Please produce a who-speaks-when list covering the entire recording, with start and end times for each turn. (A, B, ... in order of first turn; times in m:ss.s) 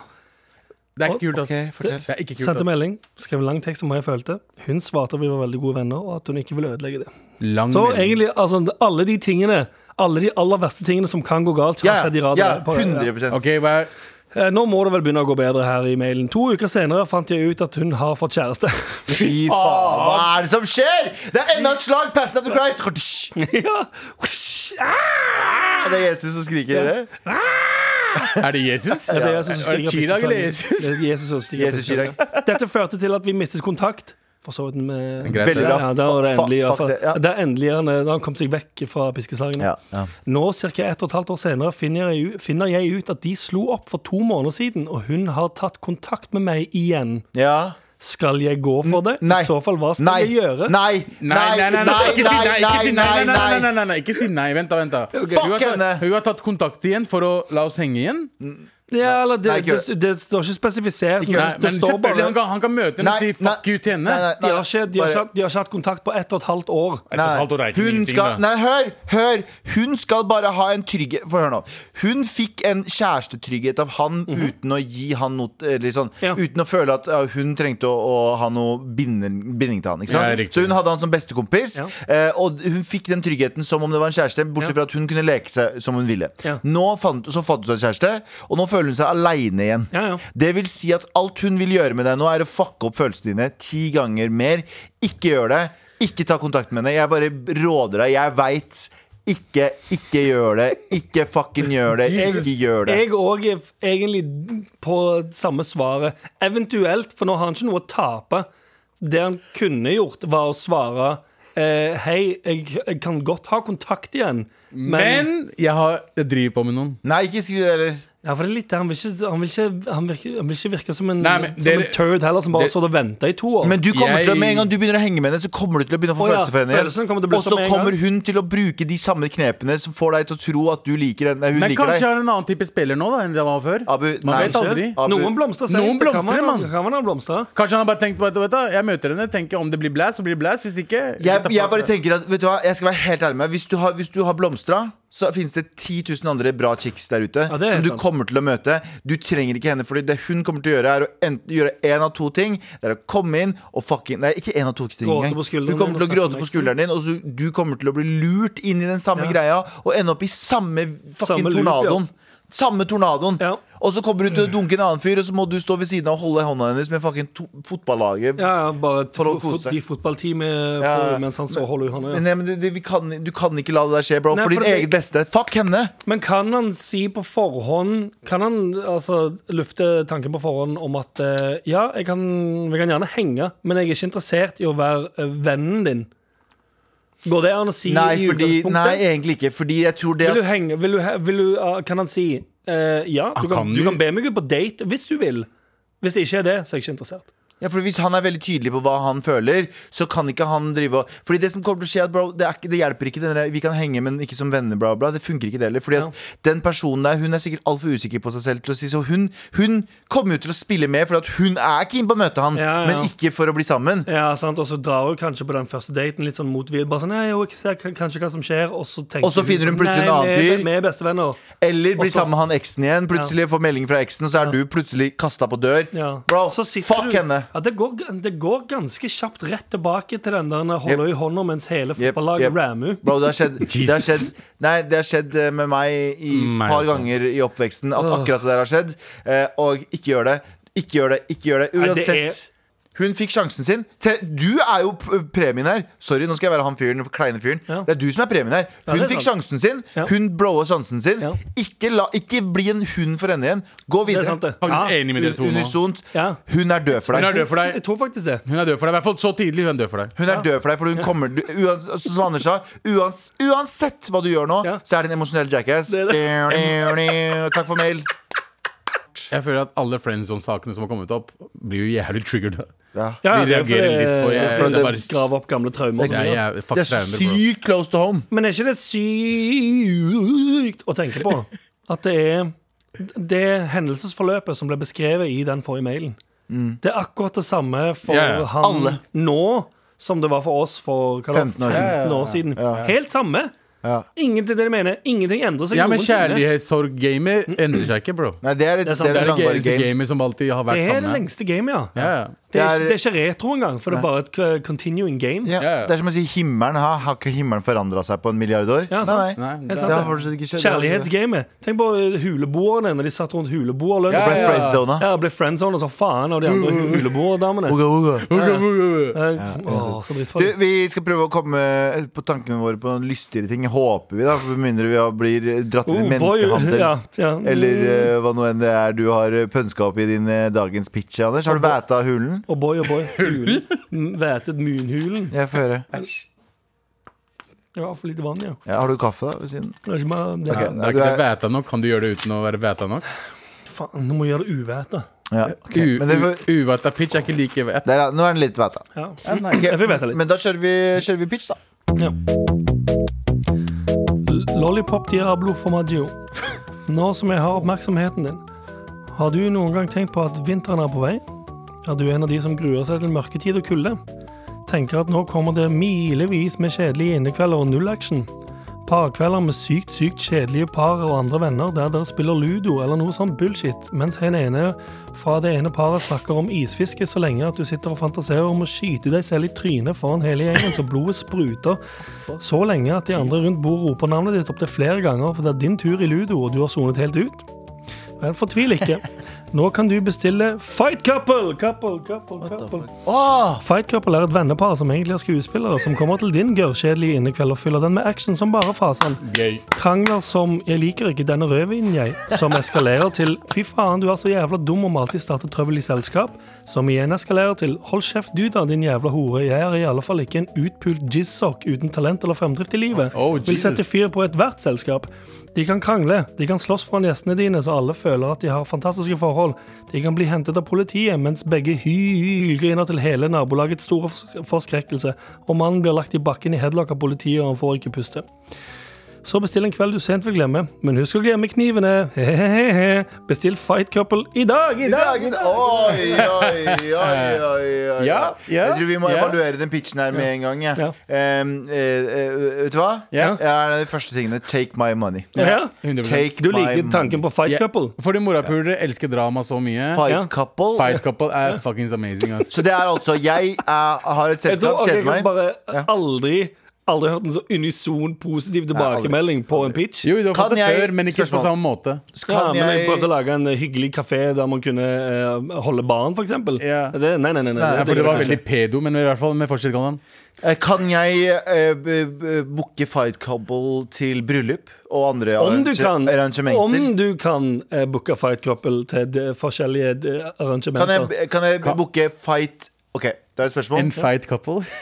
0:01.0-0:02.7 A
0:01.3-0:02.1 B
0:01.8-0:07.1 C
0:07.4-0:08.2 A
0:07.7-0:13.1 C
0:11.8-0:13.4 B
0:13.3-0:13.9 A
0:14.3-0:19.1 C
0:19.1-0:23.3 B
0:19.1-0:20.3 A
0:23.4-0:25.9 C
0:25.7-0:27.1 B
0:26.7-0:28.3 C
0:28.4-0:31.0 A
0:29.0-0:29.4 B
0:29.1-0:39.7 C
0:31.5-0:32.2 B
0:32.3-0:32.5 A
0:35.2-0:35.8 A
0:35.3-0:37.2 B
0:39.6-0:40.1 B
0:40.2-0:47.2 C
0:47.3-0:47.8 B
0:48.0-0:50.8 C
0:48.8-0:53.7 B
0:51.2-0:58.3 A
0:55.1-0:55.5 C
0:55.3-0:56.0 B
0:58.4-0:59.9 B
0:58.9-1:02.3 C
1:01.2-1:01.6 B
1:01.3-1:04.3 A
1:03.0-1:05.2 B
1:04.4-1:07.0 C
1:07.1-1:08.4 A
1:07.1-1:43.0 B
1:20.1-1:20.8 A
1:29.9-1:30.2 C
1:42.1-1:48.5 C
1:42.1-1:42.4 A
1:49.0-1:55.3 C
1:54.7-1:57.0 A
1:57.0-1:58.0 B
1:58.2-2:03.8 C
2:01.2-2:02.7 A
2:03.6-2:12.0 B
2:03.9-2:04.7 A
2:06.2-2:08.0 C
2:11.5-2:15.0 A
2:13.9-2:15.3 B
2:14.3-2:17.5 C
2:15.7-2:16.7 A
2:17.5-2:21.9 A
2:21.2-2:48.5 B
2:27.5-2:28.0 C
2:35.0-2:36.7 C
2:41.2-2:42.0 C
2:48.4-2:52.2 C
2:49.1-2:49.8 B
2:50.8-2:55.9 B
2:54.3-2:54.9 C
2:56.0-3:06.1 C
3:07.2-3:09.0 C
3:07.8-3:10.4 B
3:10.2-3:15.5 C
3:13.4-3:14.0 A
3:16.0-3:17.3 C
3:17.6-3:34.1 B
3:32.5-3:33.1 C
3:34.1-3:41.4 C
3:39.2-3:40.7 B
3:41.6-3:47.5 B
3:42.0-3:42.3 C
3:45.9-3:53.3 C
3:52.0-4:17.4 B
3:53.6-3:54.3 A
3:56.3-3:57.1 A
3:58.0-3:58.3 C
4:01.8-4:02.4 C
4:08.9-4:09.3 C
4:14.1-4:15.0 C
4:14.6-4:15.7 A
4:16.1-4:16.4 C
4:17.1-4:18.4 C
4:17.1-4:17.8 A
4:18.4-4:20.1 A
4:20.2-4:28.1 B
4:25.9-4:27.1 C
4:29.3-4:32.7 A
4:32.9-4:33.2 B
4:33.2-4:36.4 C
4:33.3-4:35.2 A
4:34.3-4:35.0 B
4:36.0-4:38.3 B
4:36.0-4:37.4 A
4:38.3-4:46.2 C
4:46.5-4:46.8 B
4:46.8-4:53.5 C
4:48.1-4:48.5 A
4:48.6-4:49.0 B
4:51.3-4:52.0 B
4:51.7-4:52.9 A
4:52.6-4:52.8 B
4:54.2-4:56.4 C
4:55.7-4:58.4 A
4:58.4-4:59.9 B
4:58.8-4:59.4 C
4:59.1-5:01.2 A
5:00.7-5:01.9 C
5:01.9-5:02.4 A
5:02.0-5:03.0 B
5:02.5-5:05.6 C
5:05.4-5:11.1 B
5:05.6-5:05.9 A
5:08.9-5:17.8 C
5:09.4-5:10.1 A
5:14.1-5:14.8 A
5:14.1-5:15.1 B
5:17.6-5:18.3 B
5:18.3-5:19.2 A
5:18.3-5:18.6 C
5:19.1-5:20.5 C
5:19.4-5:32.4 B
5:25.8-5:28.1 C
5:32.5-5:35.4 C
5:33.2-5:33.8 A
5:35.3-5:35.9 B
5:35.9-5:36.2 A
5:37.7-5:38.6 C
5:38.6-5:39.8 B
5:39.8-5:40.7 C
5:40.5-5:41.2 B
5:40.5-5:43.0 A
5:43.7-5:45.0 C
5:45.3-5:46.4 B
5:45.4-5:47.9 A
5:47.8-5:48.8 B
5:48.9-5:50.2 C
5:49.3-5:49.8 A
5:49.4-5:51.6 B
5:54.2-5:56.2 C
5:56.9-5:58.4 C
5:59.1-6:01.2 C
6:01.8-6:04.0 C
6:04.7-6:08.3 C
6:08.8-6:21.8 C
6:22.4-6:27.4 C
6:28.2-6:32.9 C
6:32.4-6:33.6 B
6:33.6-7:08.2 C
6:39.2-6:39.6 A
6:53.1-6:53.8 A
7:09.2-7:16.2 C
7:14.8-7:25.4 B
7:16.0-7:17.4 A
7:18.0-7:19.4 A
7:20.1-7:20.9 C
7:23.1-7:23.4 A
7:23.2-7:23.4 C
7:25.3-7:26.3 A
7:25.4-7:25.7 C
7:26.0-7:27.2 B
7:26.4-7:27.9 C
7:27.4-7:30.1 A
7:29.9-7:30.9 B
7:30.8-7:32.6 A
7:32.5-7:35.9 B
7:34.4-7:40.1 C
7:38.7-7:39.8 B
7:40.0-7:42.0 A
7:40.3-7:41.5 B
7:42.1-7:43.1 B
7:42.2-7:48.4 C
7:46.6-7:46.9 A
7:47.6-7:48.4 B
7:47.7-7:50.0 A
7:50.4-7:56.9 B
7:55.4-8:01.1 C
8:00.7-8:04.0 B
8:03.7-8:04.7 A